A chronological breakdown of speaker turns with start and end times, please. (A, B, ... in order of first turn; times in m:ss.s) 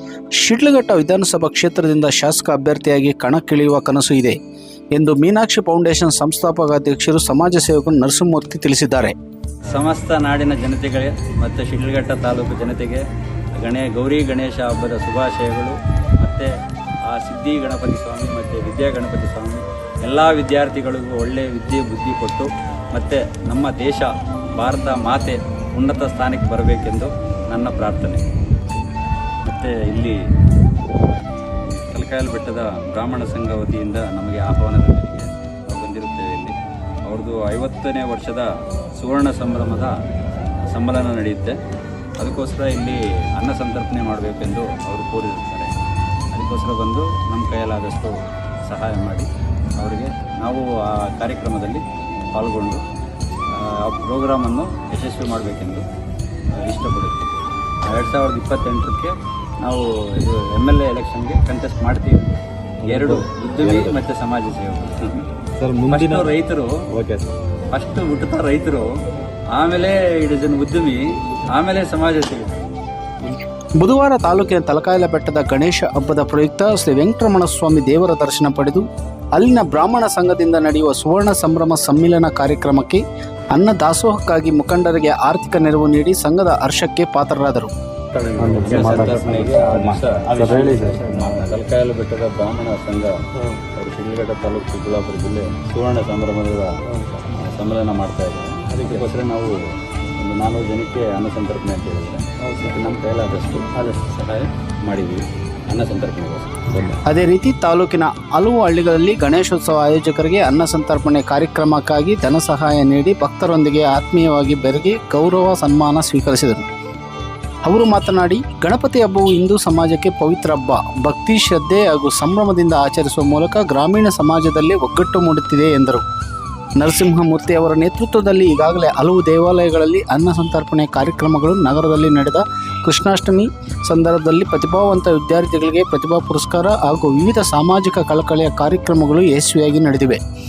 0:00.4-0:04.4 A
0:04.9-0:09.1 A
0:09.6-0:13.0 B
0:13.6-0:16.5 B
0:17.0-0:28.2 B
0:29.4-0:30.2 B
0:31.0-0:39.9 B
0:40.6-0:41.6 B
0:42.2-0:45.7 B
0:46.3-0:52.8 B
0:53.5-0:55.8 B
0:56.6-1:05.3 B
1:02.8-1:04.0 C
1:05.6-1:06.3 C
1:05.9-1:06.7 B
1:06.9-1:07.3 C
1:07.7-1:08.9 B
1:09.5-1:12.6 B
1:13.8-1:27.7 A
1:28.1-1:46.8 B
1:28.4-1:31.5 C
1:36.9-1:37.3 C
1:38.7-1:39.0 C
1:42.4-1:42.7 C
1:46.7-1:47.0 C
1:47.0-1:56.7 A
1:57.6-2:06.0 A
2:06.8-2:20.2 A